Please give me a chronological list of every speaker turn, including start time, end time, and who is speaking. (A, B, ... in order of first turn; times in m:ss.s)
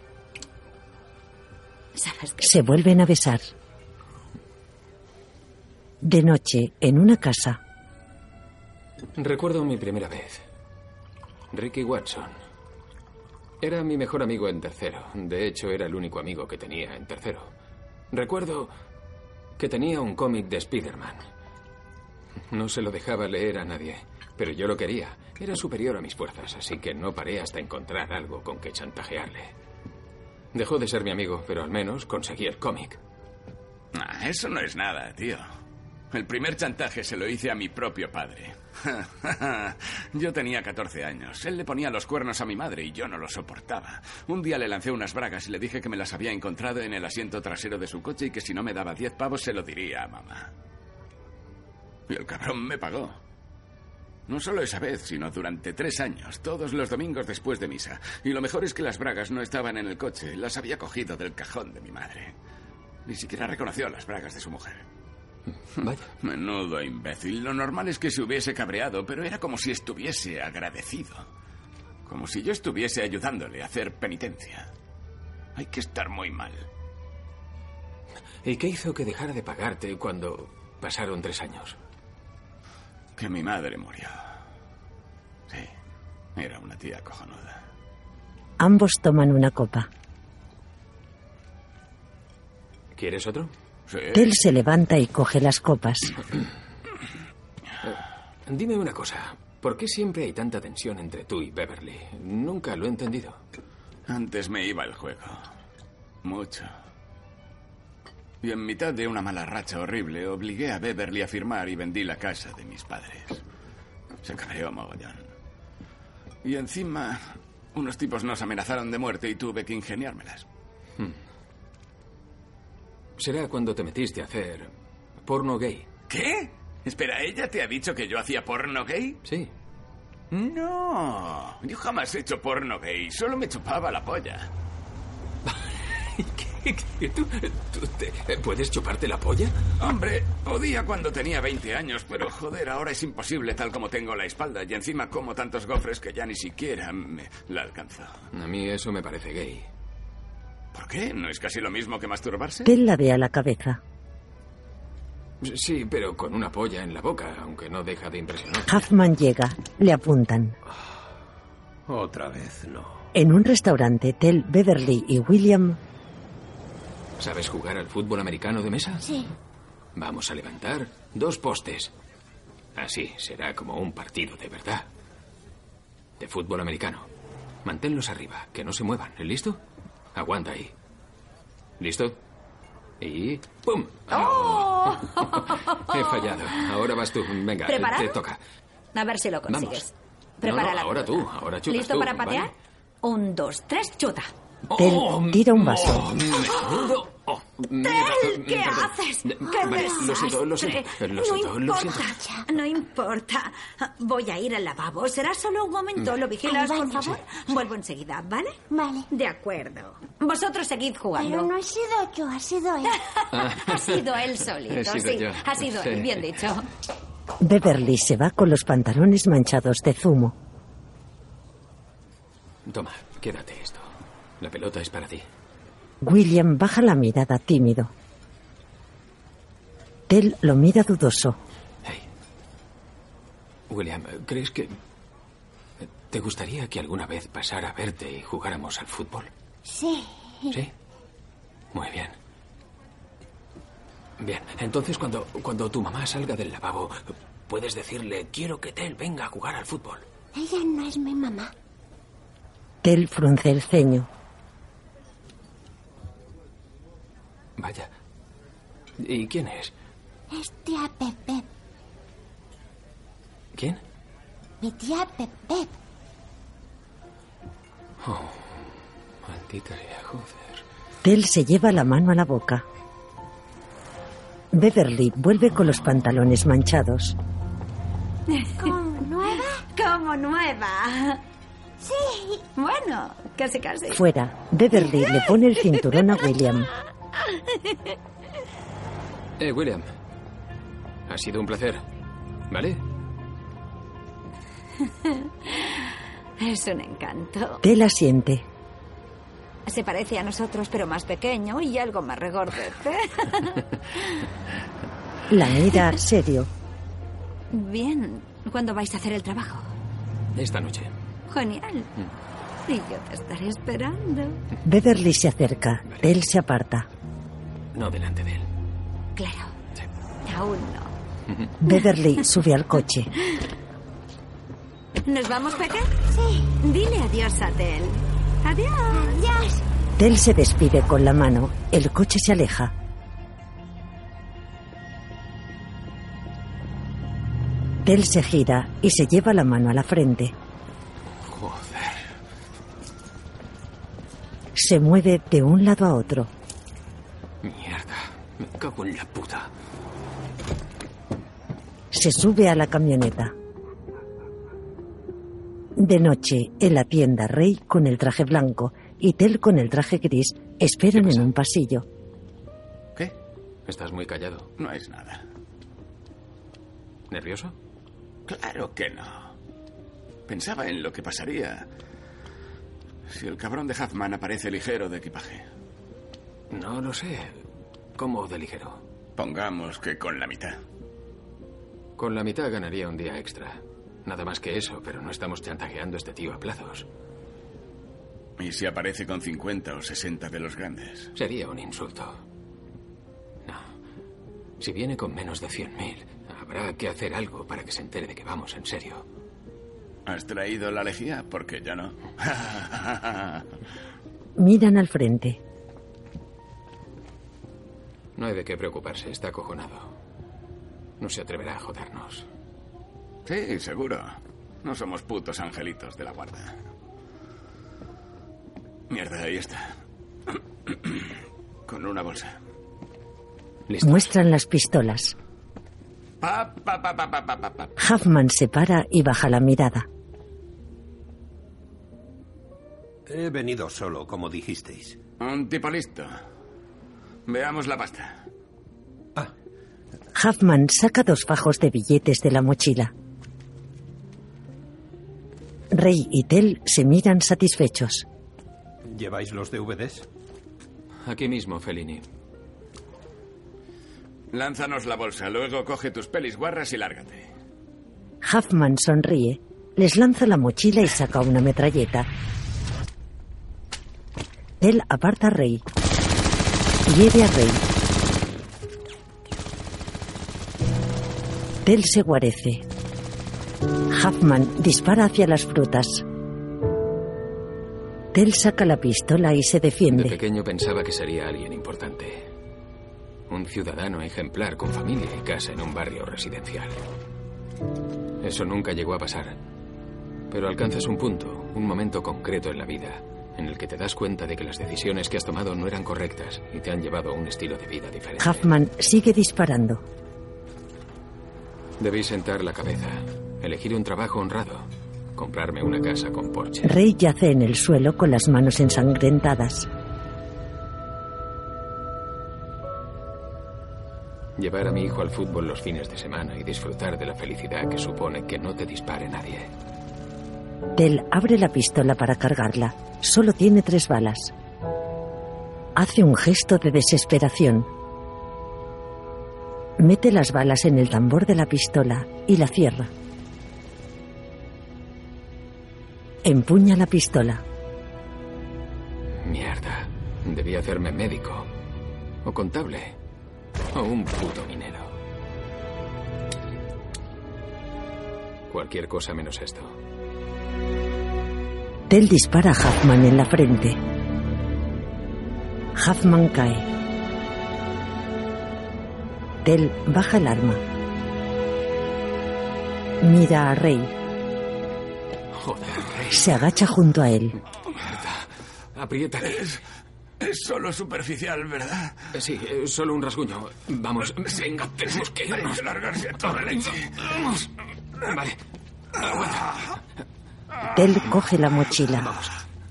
0:02.0-0:02.7 A
0:02.4-0:03.5 B
0:06.0-0:07.6 B
0:09.2-0:10.4 C
0:11.5-0:12.4 C
0:13.6-0:17.5 C
0:18.1-0:18.7 C
0:19.6-0:21.3 C
0:22.5-0:29.5 C
0:30.5-0:33.0 C
0:33.9-0:35.5 D
0:36.1-0:50.5 D
0:52.1-0:53.2 D
0:54.3-1:02.4 D
1:03.1-1:04.8 D
1:05.8-1:06.1 C
1:06.2-1:11.3 D
1:12.1-1:14.7 D
1:15.6-1:16.7 D
1:18.4-1:21.8 C
1:23.2-1:24.2 D
1:26.4-1:27.6 D
1:28.6-1:29.9 B
1:32.9-1:33.5 C
1:33.9-1:34.3 D
1:34.1-1:36.1 B
1:37.8-1:43.4 C
1:44.1-1:45.4 D
1:46.2-1:46.7 D
1:48.4-1:53.4 D
1:54.2-1:55.2 D
1:56.4-2:00.5 D
2:03.2-2:04.7 C
2:05.2-2:05.9 C
2:06.1-2:09.2 D
2:09.2-2:09.5 C
2:10.3-2:14.5 D
2:15.5-2:19.6 C
2:19.8-2:28.2 D
2:28.3-2:29.7 C
2:30.7-2:32.7 D
2:32.6-2:33.8 B
2:35.4-2:38.8 C
2:38.7-2:40.6 B
2:41.9-2:43.0 E
2:43.1-2:45.8 B
2:47.2-2:49.0 C
2:49.0-2:49.3 F
2:50.0-2:51.9 C
2:52.8-2:54.9 C
2:56.2-2:57.1 C
2:57.6-2:59.6 C
3:00.1-3:00.7 C
3:01.8-3:02.2 C
3:03.0-3:08.4 C
3:04.1-3:06.6 A
3:07.7-3:08.2 A
3:09.0-3:12.5 A
3:09.5-3:09.8 C
3:10.4-3:12.5 C
3:13.0-3:14.3 A
3:14.7-3:22.1 C
3:14.8-3:16.2 B
3:17.8-3:28.6 A
3:19.5-3:20.2 F
3:22.1-3:22.4 F
3:26.3-3:27.2 F
3:28.7-3:29.1 F
3:29.1-3:31.5 A
3:31.2-3:33.0 F
3:32.8-3:36.7 A
3:33.3-3:36.2 C
3:37.4-3:40.4 B
3:42.7-3:45.3 C
3:46.0-3:47.9 B
3:50.1-3:51.4 B
3:53.7-3:54.7 C
3:55.8-3:59.3 C
3:59.6-4:00.6 F
4:01.7-4:02.2 C
4:04.2-4:10.1 C
4:10.3-4:11.5 F
4:12.8-4:14.1 B
4:17.6-4:17.9 C
4:19.0-4:19.7 C
4:20.3-4:21.5 F
4:23.6-4:23.8 C
4:24.6-4:25.7 F
4:28.0-4:30.6 C
4:31.0-4:32.6 B
4:34.5-4:37.2 B
4:38.3-4:38.8 A
4:38.6-4:39.6 F
4:39.7-4:41.2 A
4:41.8-4:42.4 F
4:42.6-4:44.0 A
4:43.9-4:46.7 B
4:47.5-4:47.9 A
4:49.4-4:49.9 C
4:51.1-4:51.8 C
4:52.5-4:52.8 C
4:55.0-4:55.8 A
4:56.4-4:57.6 A
4:57.6-4:58.5 B
4:59.7-5:04.2 A
5:05.3-5:06.5 B
5:07.5-5:09.7 A
5:10.3-5:10.9 C
5:11.3-5:11.9 A
5:12.7-5:14.4 A
5:14.6-5:16.9 B
5:15.9-5:16.2 C
5:17.7-5:18.5 C
5:19.2-5:19.6 A
5:20.2-5:20.9 A
5:21.3-5:21.6 C
5:21.6-5:23.1 B
5:25.0-5:26.0 A
5:26.1-5:26.5 F
5:26.6-5:29.2 A
5:28.9-5:29.6 F
5:30.0-5:32.7 B
5:37.8-5:40.3 B
5:41.2-5:42.1 C
5:44.6-5:46.3 B
5:47.4-5:49.5 C
5:51.9-5:53.3 B
5:55.8-6:01.9 B
6:01.0-6:01.3 C
6:03.7-6:04.5 C
6:04.6-6:05.2 D
6:07.1-6:07.6 C
6:08.3-6:09.3 D
6:10.3-6:11.7 D
6:13.1-6:15.4 D
6:16.5-6:17.4 C
6:18.0-6:18.8 C
6:19.2-6:20.6 D
6:22.0-6:26.9 C
6:28.4-6:31.1 D
6:31.2-6:32.2 C
6:34.6-6:39.0 C
6:40.1-6:43.4 D
6:44.4-6:45.4 B
6:48.2-6:50.0 C
6:51.0-6:52.3 C
6:53.3-6:56.6 D
6:58.9-6:59.8 D
7:00.7-7:01.1 D
7:01.7-7:02.4 D
7:03.7-7:04.1 C
7:03.8-7:05.2 B
7:06.2-7:07.7 D
7:07.8-7:09.9 B
7:13.1-7:15.0 E
7:15.2-7:16.2 D
7:17.3-7:18.2 D
7:20.2-7:22.9 B
7:25.7-7:28.1 B
7:28.9-7:30.1 E
7:31.0-7:32.0 C
7:34.3-7:37.3 D
7:38.2-7:42.1 B
7:44.6-7:45.6 B
7:46.9-7:47.6 B
7:51.6-7:52.6 B
7:53.9-7:56.0 B
7:58.1-8:00.2 B
7:59.9-8:02.3 C
8:03.3-8:06.8 C
8:08.2-8:09.4 C
8:10.3-8:18.5 C
8:18.2-8:19.8 B
8:21.8-8:26.8 C
8:26.6-8:29.7 B
8:34.4-8:39.5 C
8:40.8-8:44.3 B
8:45.8-8:47.7 B
8:49.8-8:52.9 B
8:56.2-8:57.4 B
8:59.2-9:01.5 C
9:02.2-9:03.0 C
9:03.7-9:05.0 C
9:08.5-9:09.8 C
9:11.9-9:13.8 B
9:15.8-9:16.7 B
9:19.4-9:20.6 B
9:23.0-9:23.9 B
9:25.3-9:26.4 C
9:26.1-9:27.4 B
9:27.8-9:29.6 C
9:30.2-9:32.0 D
9:32.1-9:35.6 C
9:35.4-9:36.9 D
9:36.3-9:37.4 C
9:38.0-9:38.4 C
9:39.0-9:39.5 C
9:40.7-9:42.1 B
9:42.0-9:42.3 C